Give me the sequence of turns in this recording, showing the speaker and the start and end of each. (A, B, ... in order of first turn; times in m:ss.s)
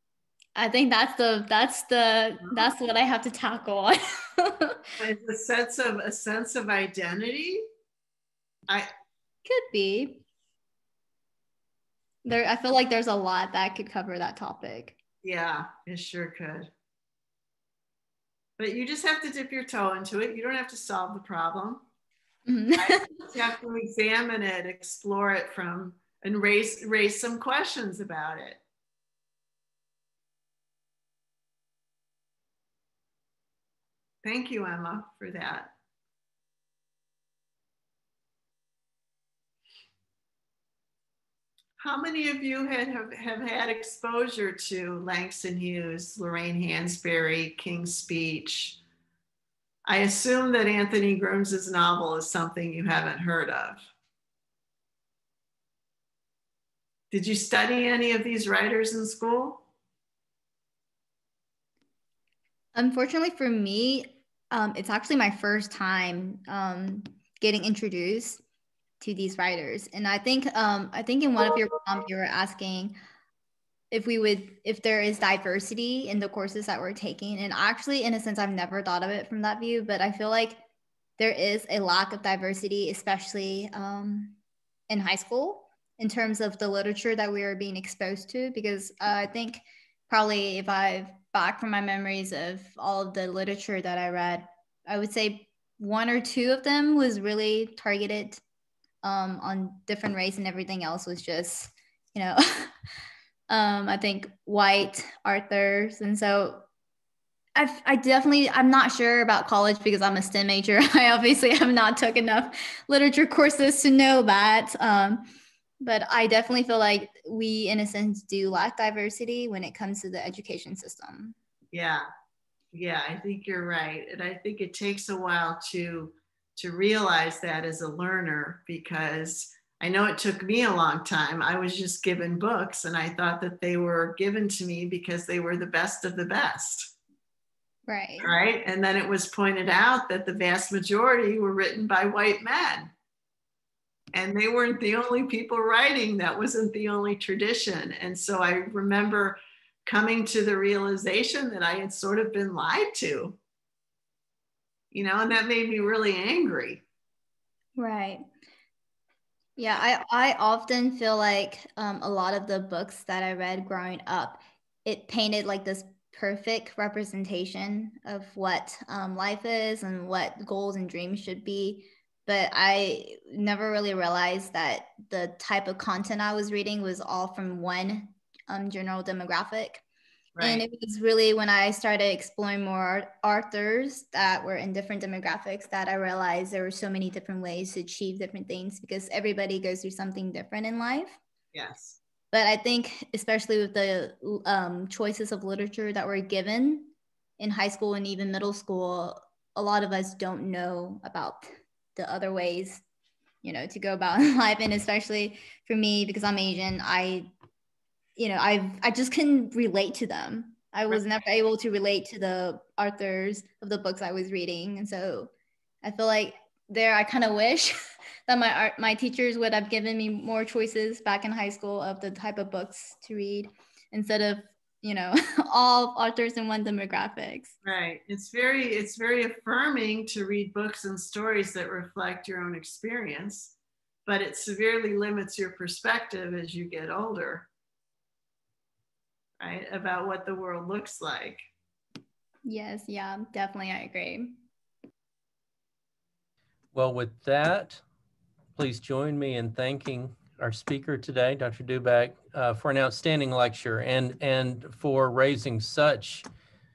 0:00.6-0:04.8 A
0:05.0-0:07.6 B
0:09.4-0:10.2 A
0:12.2-0:15.0 A
0:15.2-0:16.7 B
0:18.6-0:21.8 B
0:22.5-0:23.4 A
0:22.8-0:28.6 B
0:34.2-0:35.7 B
0:41.8-0:48.8 B
0:49.8-0:53.9 B
0:57.1-0:59.6 B
1:02.7-1:08.4 A
1:09.0-1:13.0 A
1:13.9-1:20.6 A
1:21.2-1:24.4 A
1:24.9-1:38.4 A
1:39.0-1:42.7 A
1:43.5-1:46.6 A
1:47.6-1:55.3 A
1:55.8-2:01.3 A
2:01.7-2:02.0 B
2:02.7-2:16.9 B
2:17.9-2:18.3 A
2:18.2-2:22.9 B
2:24.1-2:33.4 B
2:34.9-2:36.8 B
2:37.8-2:38.2 A
2:39.6-2:59.8 A
3:00.4-3:00.6 B
3:00.4-3:11.2 A
3:11.5-3:12.0 B
3:12.3-3:22.8 A
3:23.4-3:27.3 A
3:28.2-3:35.3 A
3:35.8-3:37.7 A
3:38.3-3:47.6 A
3:47.6-3:53.5 B
3:54.0-3:57.5 B
3:59.4-4:01.4 B
4:02.4-4:04.4 A
4:06.7-4:07.8 C
4:08.6-4:16.2 C